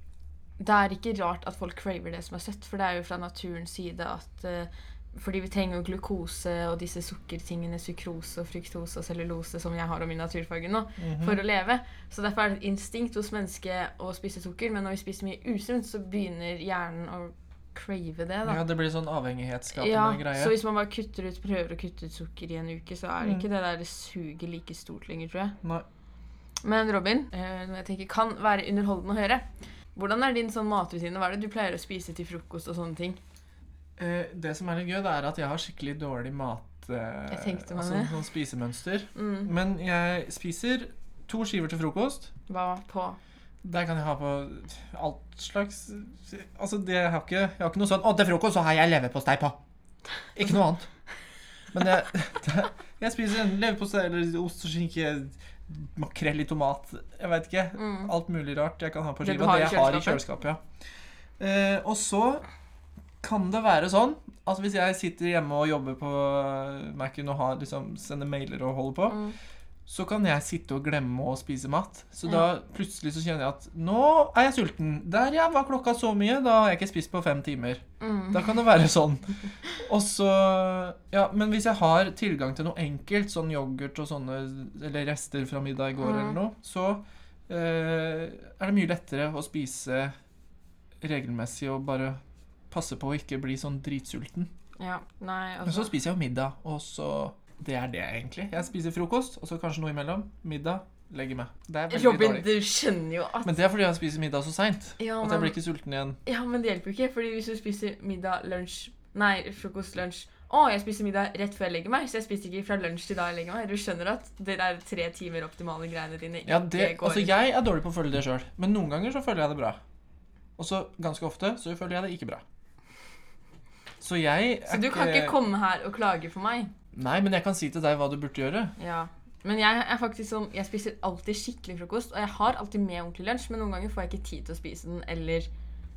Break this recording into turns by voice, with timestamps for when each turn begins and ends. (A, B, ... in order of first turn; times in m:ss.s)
0:00.6-0:18.6 A
0:11.0-0:11.4 B
0:18.4-0:20.6 B
0:19.8-0:25.6 A
0:23.2-0:23.5 B
0:26.6-0:33.2 A
0:34.0-0:42.3 B
0:37.3-0:38.1 A
0:39.2-0:39.5 A
0:42.5-0:43.2 A
0:43.6-0:49.6 B
0:50.4-0:50.9 B
0:51.7-1:00.6 B
0:57.8-0:58.1 A
0:59.2-1:00.2 A
1:01.4-1:02.5 B
1:03.2-1:09.2 B
1:09.1-1:09.4 A
1:09.9-1:30.1 B
1:18.0-1:18.6 A
1:26.0-1:26.4 A
1:31.0-1:32.2 B
1:32.7-1:34.5 B
1:34.8-1:35.9 A
1:35.7-1:42.5 B
1:41.9-1:43.6 A
1:43.4-1:46.2 B
1:45.0-1:45.6 A
1:46.3-1:57.3 A
1:56.5-1:59.8 B
2:00.6-2:02.4 B
2:04.0-2:05.4 B
2:04.7-2:06.7 A
2:06.9-2:08.7 B
2:08.8-2:15.5 A